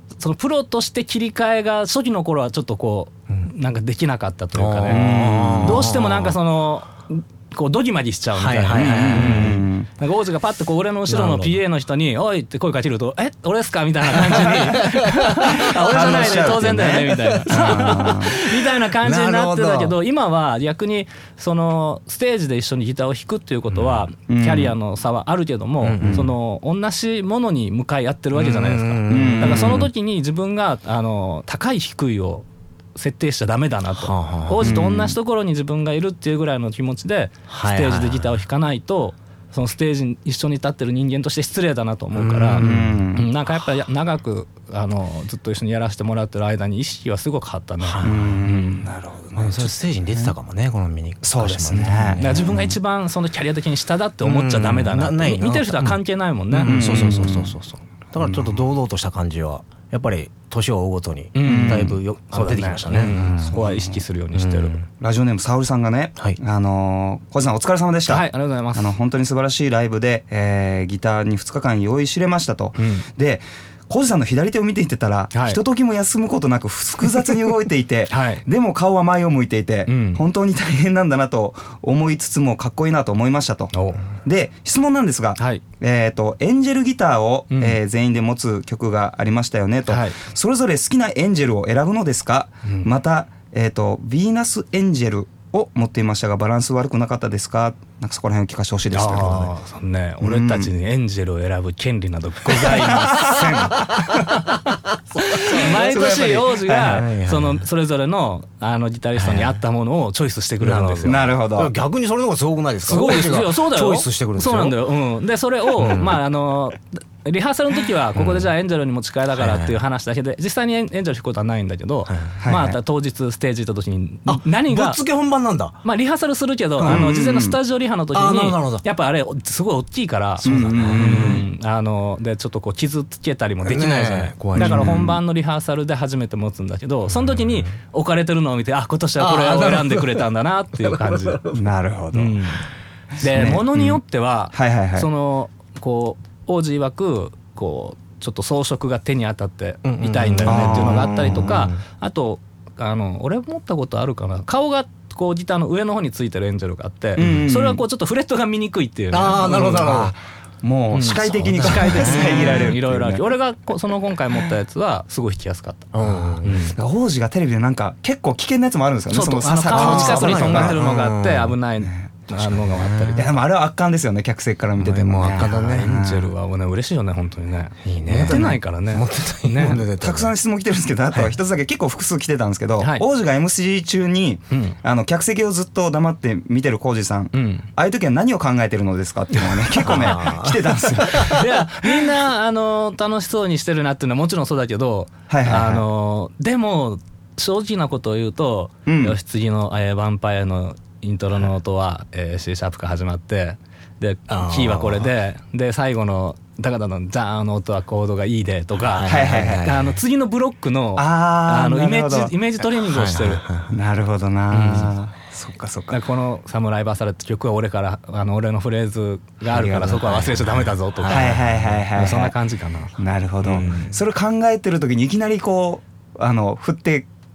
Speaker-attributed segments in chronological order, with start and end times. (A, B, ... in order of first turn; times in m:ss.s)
0:00.2-0:05.1 A
0:04.6-0:06.4 B
0:04.9-0:05.9 C
0:05.6-0:48.9 A
0:08.4-0:09.6 B
0:08.7-0:09.9 C
0:11.1-0:11.6 B
0:14.2-0:16.6 B
0:15.5-0:18.4 C
0:17.2-0:19.9 B
0:24.3-0:24.8 C
0:25.8-0:26.2 B
0:26.0-0:26.3 C
0:28.3-0:29.9 B
0:29.1-0:29.9 C
0:34.0-0:34.7 B
0:34.6-0:35.2 C
0:37.5-0:38.4 B
0:42.2-0:43.0 B
0:42.6-0:43.3 C
0:47.8-0:48.4 B
0:48.0-0:50.4 C
0:49.4-0:52.7 B
0:51.2-0:52.6 C
0:51.8-0:57.3 A
0:54.2-0:56.0 B
0:56.5-1:03.6 B
0:56.6-0:57.6 C
0:58.2-0:58.6 C
1:01.4-1:04.8 A
1:01.4-1:02.0 C
1:02.9-1:04.0 C
1:04.3-1:04.9 B
1:05.0-1:39.5 C
1:08.1-1:09.0 A
1:12.8-1:13.1 A
1:15.3-1:15.6 A
1:18.1-1:18.4 A
1:19.9-1:20.2 A
1:23.7-1:24.0 A
1:25.4-1:25.6 A
1:27.5-1:27.8 A
1:29.9-1:30.2 A
1:32.6-1:32.9 A
1:38.9-1:44.5 A
1:40.2-1:40.7 C
1:42.5-1:44.3 C
1:43.8-1:44.1 B
1:45.2-1:51.2 A
1:45.4-1:45.9 B
1:45.5-1:47.0 C
1:46.7-1:47.6 B
1:49.2-1:49.6 B
1:50.6-1:54.8 B
1:51.1-1:51.7 C
1:52.8-2:05.0 A
1:55.8-1:56.2 B
1:58.2-1:58.5 B
1:59.4-1:59.8 B
2:02.1-2:02.4 B
2:02.4-2:02.8 C
2:04.3-2:05.8 B
2:05.8-2:21.4 A
2:06.8-2:07.1 B
2:06.8-2:07.6 C
2:08.1-2:08.8 B
2:10.4-2:11.5 B
2:10.4-2:11.4 C
2:13.6-2:15.1 B
2:14.6-2:15.2 C
2:17.2-2:17.6 B
2:19.2-2:20.3 B
2:20.8-2:21.7 B
2:21.5-2:22.4 C
2:22.1-2:22.6 A
2:23.2-2:24.0 C
2:23.2-2:39.9 A
2:24.5-2:25.1 C
2:29.8-2:31.8 B
2:30.4-2:31.7 C
2:37.2-2:37.8 C
2:39.1-2:40.1 B
2:39.5-2:43.3 C
2:40.9-2:46.8 A
2:41.6-2:42.7 B
2:45.9-2:46.7 B
2:46.8-2:50.8 C
2:49.1-2:53.3 A
2:49.7-2:51.6 B
2:52.3-2:53.2 B
2:53.1-2:56.3 C
2:54.8-2:56.0 B
2:55.3-2:59.8 A
2:57.8-3:00.4 B
2:58.2-2:58.6 C
3:00.0-3:11.5 C
3:02.8-3:03.0 A
3:04.5-3:04.8 A
3:07.3-3:07.7 A
3:09.8-3:11.5 B
3:11.1-3:33.4 A
3:15.3-3:15.8 C
3:18.9-3:19.2 C
3:24.3-3:25.1 B
3:28.8-3:30.0 B
3:29.1-3:29.8 C
3:31.0-3:32.3 C
3:32.8-3:33.8 B
3:33.7-3:36.0 C
3:34.5-3:34.9 A
3:35.9-3:41.4 A
3:39.5-3:40.0 C
3:39.6-3:42.1 B
3:41.1-3:42.3 C
3:41.9-3:43.0 A
3:43.0-3:47.1 C
3:43.4-3:44.0 B